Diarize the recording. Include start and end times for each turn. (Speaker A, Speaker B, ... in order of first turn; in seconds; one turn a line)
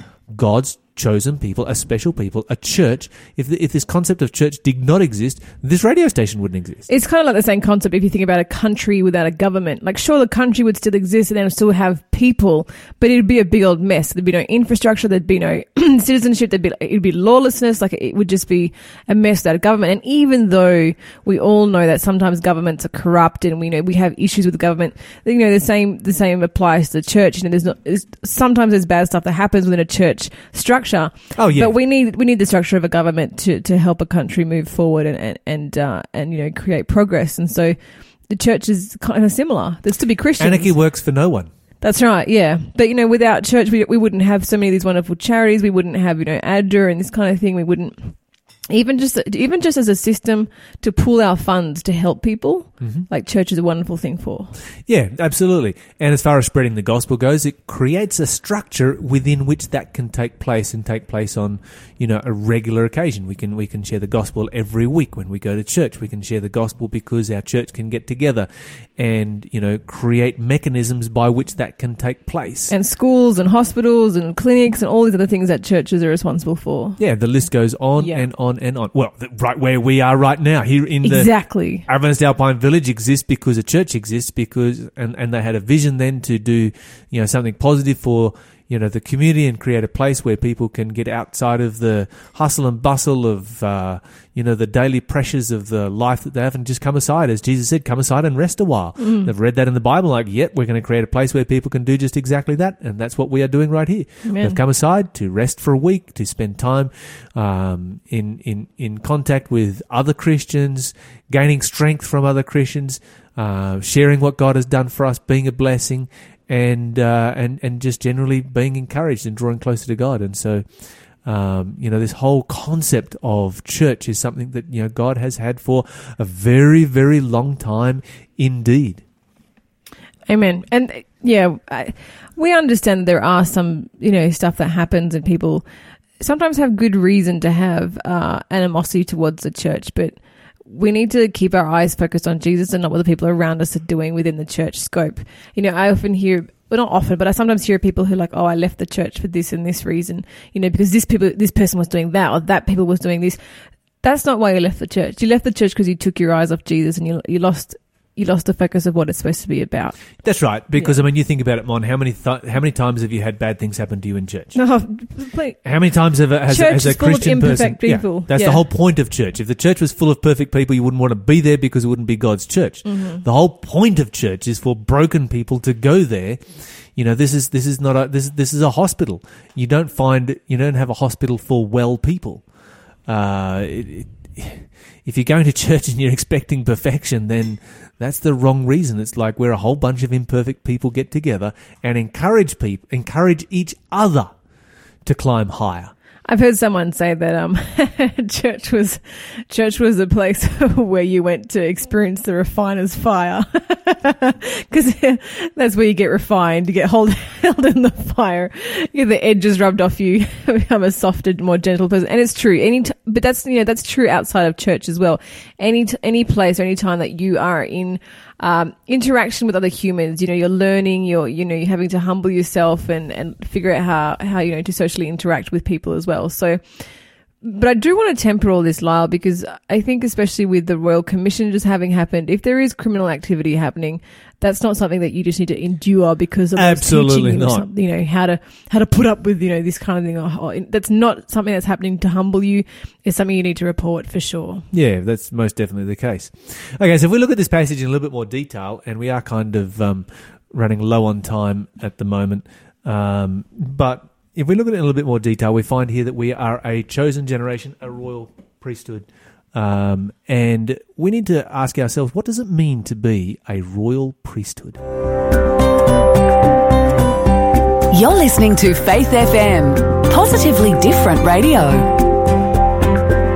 Speaker A: 0.3-6.9
Speaker B: 6.9-37.8
Speaker A: 31.3-31.7
Speaker B: 38.3-40.8
Speaker A: 40.4-41.5
Speaker B: 41.8-48.1
Speaker B: 48.7-54.5
Speaker A: 52.8-53.0
Speaker A: 54.9-72.7
Speaker B: 72.7-77.0
Speaker A: 77.0-120.7
Speaker B: 78.0-78.2
Speaker B: 81.0-81.8
Speaker B: 99.0-99.3
Speaker B: 104.2-104.6
Speaker A: 121.2-129.0
Speaker B: 130.3-135.7
Speaker B: 136.2-153.4
Speaker B: 154.0-160.0
Speaker A: 160.2-164.6
Speaker B: 164.5-165.6
Speaker A: 165.6-182.4
Speaker B: 166.5-168.6
Speaker B: 172.8-173.2
Speaker A: 183.1-194.3
Speaker A: 195.0-195.9
Speaker B: 196.3-226.8
Speaker B: 227.4-244.7
Speaker A: 236.6-237.7
Speaker A: 244.7-264.8
Speaker C: 267.9-271.9